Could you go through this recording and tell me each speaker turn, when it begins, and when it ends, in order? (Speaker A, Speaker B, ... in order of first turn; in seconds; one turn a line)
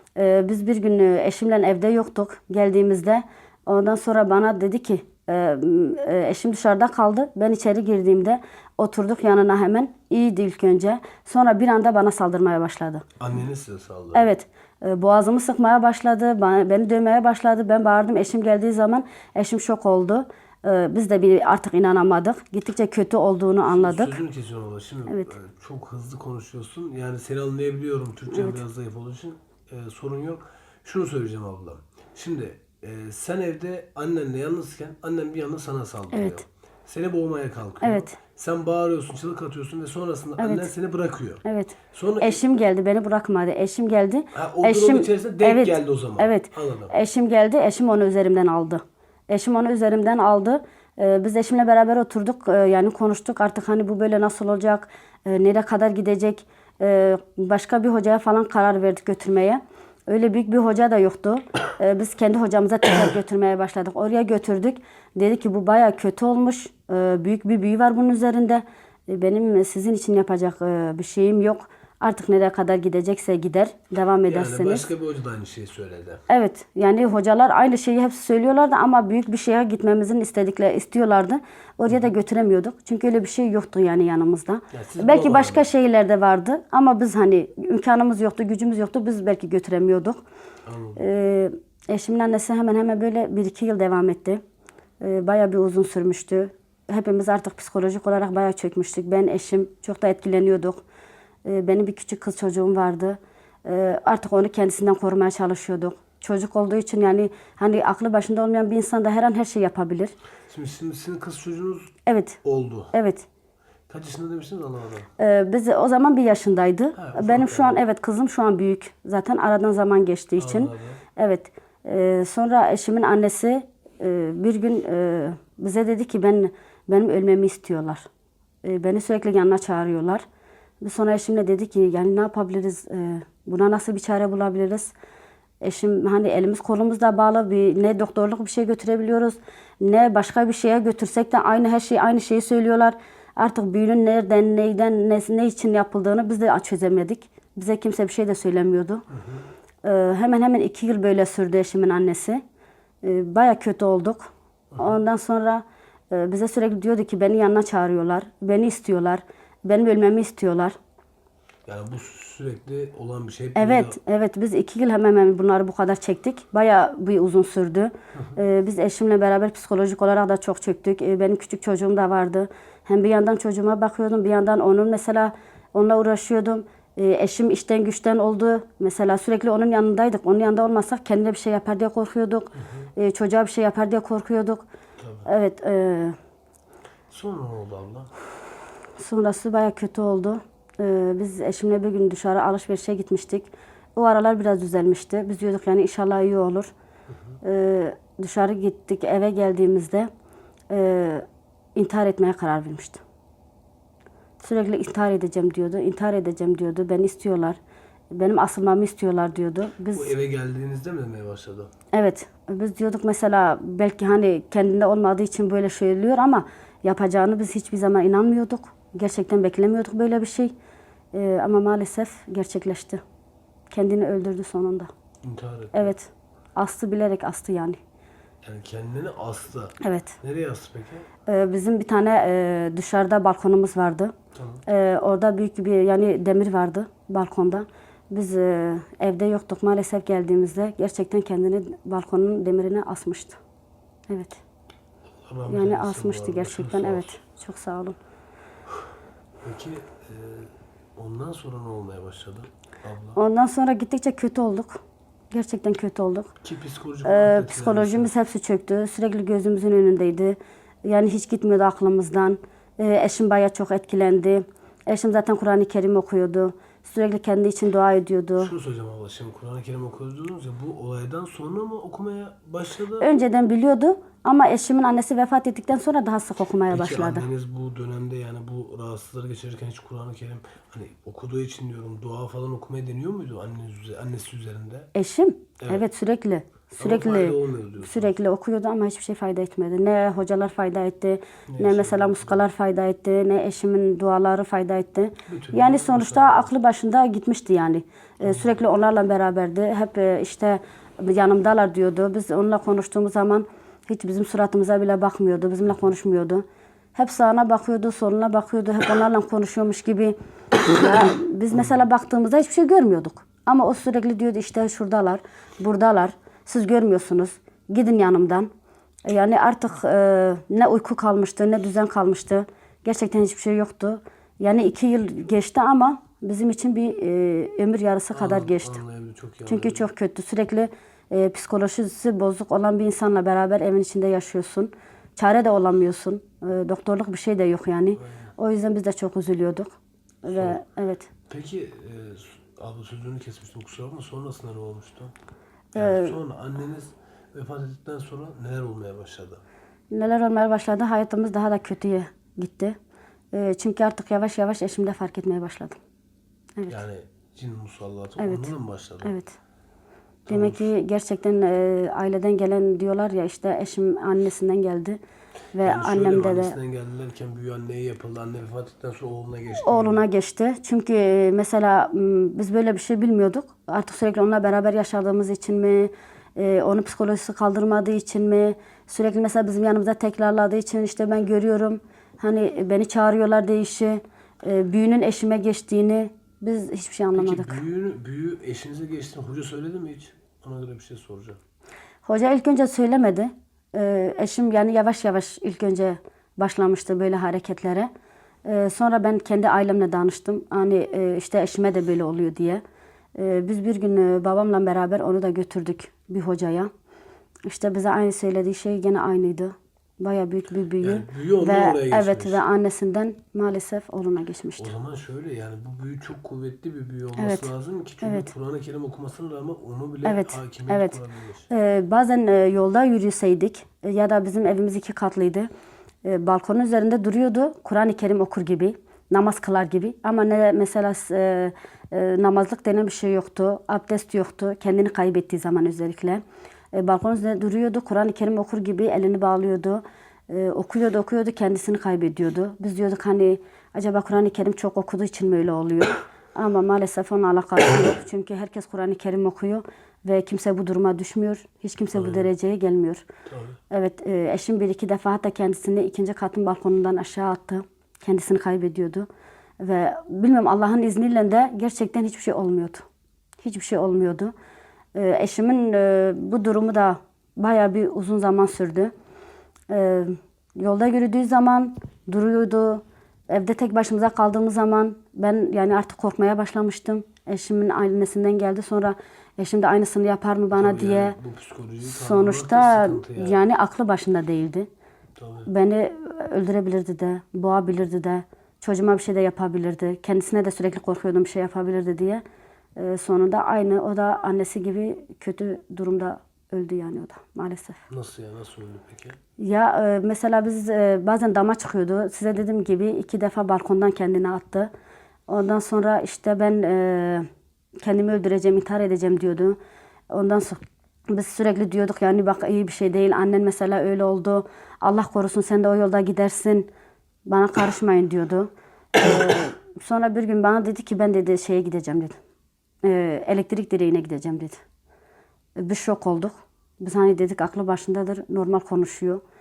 Speaker A: 0.1-13.0
Speaker B: 13.2-14.3
Speaker A: 14.1-24.2
Speaker B: 23.7-41.4
Speaker A: 25.1-25.3
Speaker A: 28.3-28.6
Speaker A: 36.1-36.4
Speaker A: 37.8-38.1
Speaker A: 40.4-40.7
Speaker A: 41.4-74.9
Speaker B: 41.9-42.4
Speaker B: 44.3-46.9
Speaker B: 74.3-76.2
Speaker A: 76.3-90.2
Speaker B: 84.7-85.6
Speaker B: 90.7-91.0
Speaker A: 91.0-94.4
Speaker A: 95.0-100.8
Speaker A: 101.4-110.1
Speaker B: 110.5-111.9
Speaker A: 112.0-112.4
Speaker B: 112.4-112.9
Speaker A: 112.9-113.3
Speaker B: 113.9-115.1
Speaker A: 115.2-128.1
Speaker B: 117.0-117.8
Speaker B: 120.4-121.0
Speaker A: 128.6-130.2
Speaker A: 130.8-134.9
Speaker A: 135.6-149.0
Speaker B: 149.1-149.4
Speaker A: 149.8-152.4
Speaker A: 153.0-160.8
Speaker B: 161.7-164.0
Speaker A: 163.5-184.6
Speaker B: 182.6-182.9
Speaker B: 185.0-185.2
Speaker A: 185.2-186.2
Speaker B: 187.1-188.1
Speaker A: 189.0-196.7
Speaker A: 197.4-200.1
Speaker A: 200.7-201.2
Speaker A: 201.8-203.0
Speaker A: 204.4-207.6
Speaker A: 208.1-210.1
Speaker B: 209.9-211.7
Speaker A: 211.9-220.5
Speaker A: 221.1-223.0
Speaker A: 223.7-224.9
Speaker B: 225.2-225.9
Speaker A: 225.7-227.8
Speaker B: 228.4-231.1
Speaker A: 229.8-230.2
Speaker A: 231.3-234.1
Speaker B: 234.3-234.6
Speaker A: 234.7-243.4
Speaker A: 244.1-244.4
Speaker B: 245.2-247.1
Speaker A: 245.5-248.0
Speaker B: 249.4-253.2
Speaker A: 253.2-256.3
Speaker B: 256.4-258.1
Speaker A: 257.0-268.5
Speaker B: 268.4-273.1
Speaker A: 273.0-277.2
Speaker B: 276.7-284.9
Speaker A: 284.9-306.4
Speaker B: 286.8-288.1
Speaker B: 291.5-292.4
Speaker B: 295.3-296.5
Speaker B: 298.2-298.6
Speaker A: 306.9-318.5
Speaker A: 319.1-328.8
Speaker B: 328.1-329.9
Speaker A: 329.4-341.1
Speaker B: 338.0-338.3
Speaker B: 340.3-340.6
Speaker B: 341.3-345.1
Speaker A: 345.7-346.2
Speaker B: 345.8-349.4
Speaker A: 349.9-352.8
Speaker A: 353.3-355.8
Speaker B: 356.7-359.1
Speaker A: 358.2-358.5
Speaker A: 359.0-359.3
Speaker B: 360.2-360.7
Speaker A: 360.3-365.0
Speaker A: 365.5-366.6
Speaker B: 365.6-370.0
Speaker A: 369.6-387.6
Speaker B: 387.1-391.4
Speaker A: 392.0-397.9
Speaker A: 398.4-402.6
Speaker A: 403.1-406.7
Speaker A: 407.5-414.7
Speaker B: 410.8-412.4
Speaker B: 414.6-421.5
Speaker A: 417.2-417.5
Speaker A: 418.0-418.3
Speaker A: 420.0-421.0
Speaker A: 421.5-425.5
Speaker A: 426.0-453.0
Speaker B: 451.9-452.3
Speaker B: 453.3-453.6
Speaker A: 453.7-459.1
Speaker A: 459.6-462.9
Speaker A: 463.4-464.3
Speaker A: 464.9-468.9
Speaker A: 469.7-481.2
Speaker B: 480.5-483.4
Speaker A: 481.8-484.7
Speaker B: 485.2-485.5
Speaker A: 485.4-492.2
Speaker A: 492.8-497.8
Speaker B: 497.9-499.2
Speaker A: 499.4-504.7
Speaker A: 505.3-507.3
Speaker A: 507.8-509.6
Speaker A: 510.1-516.7
Speaker A: 517.3-522.2
Speaker A: 522.8-524.6
Speaker A: 525.6-529.2